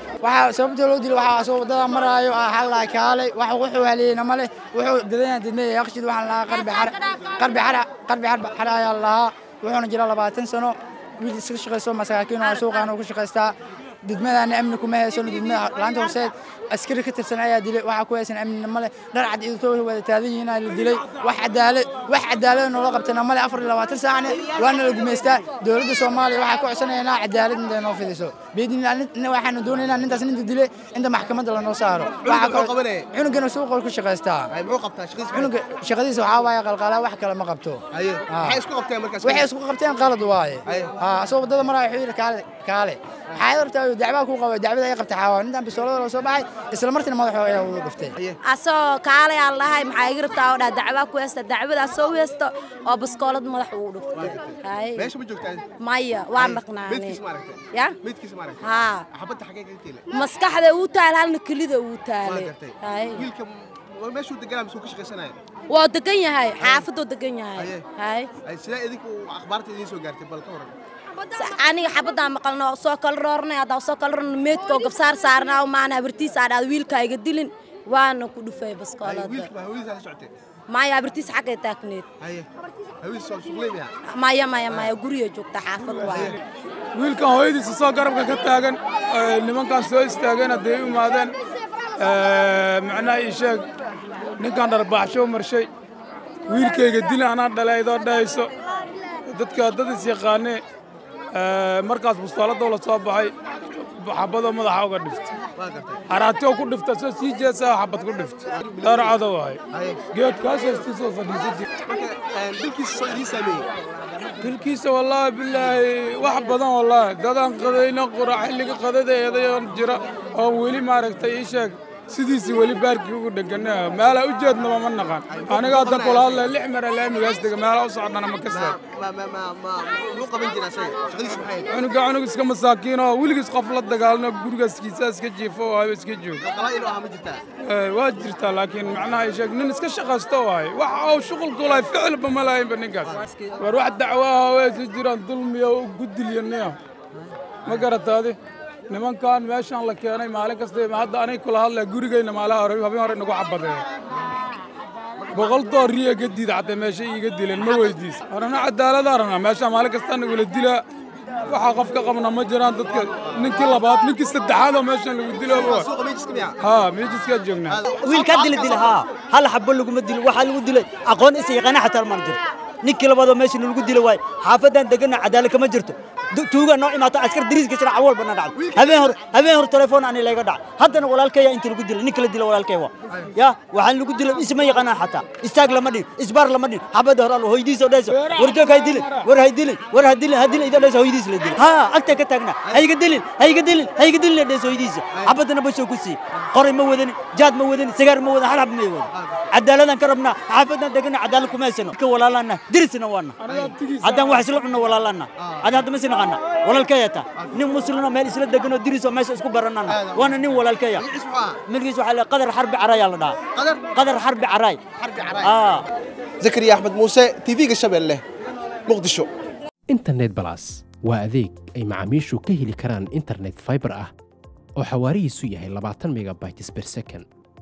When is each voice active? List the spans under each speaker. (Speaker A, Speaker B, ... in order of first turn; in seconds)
Speaker A: 0.2-34.5, 35.3-38.6, 39.2-48.1
Speaker B: 32.2-33.1, 34.5-35.5, 37.9-39.5, 40.7-40.9, 54.1-55.6, 56.4-60.0, 62.2-65.3, 66.6-66.9, 67.5-67.9, 68.4-70.7, 79.0-80.3, 82.2-82.5, 83.0-83.9, 84.7-85.0, 86.0-86.4, 105.5-106.0, 108.5-109.2, 109.7-110.0, 111.7-113.7, 125.3-126.6, 128.5-131.7, 136.4-137.4, 143.0-143.5, 162.8-163.7, 165.5-166.6, 167.7-169.0, 178.6-179.1, 199.1-199.4, 203.5-203.7, 205.4-205.8, 209.9-211.6, 213.5-213.9, 214.9-215.5, 216.4-218.2, 218.8-219.3
Speaker C: 48.5-55.1, 55.8-57.2, 58.6-59.0, 60.1-63.2, 65.7-68.3, 71.3-79.5, 80.7-82.1, 84.1-86.3
Speaker D: 86.9-91.3, 92.0-93.7, 94.4-95.7, 96.5-98.5, 99.2-100.6, 101.3-105.4, 106.1-109.6, 110.1-111.6, 114.4-128.8, 131.7-136.4, 137.6-146.8, 147.6-148.4, 148.9-153.8, 155.3-160.8, 161.4-165.9, 166.6-167.8, 188.1-189.3, 203.4-204.5
Speaker E: 168.0-203.4, 204.0-211.0, 211.7-213.3, 213.9-214.8, 215.4-215.8
Speaker F: 219.9-224.1, 224.8-227.2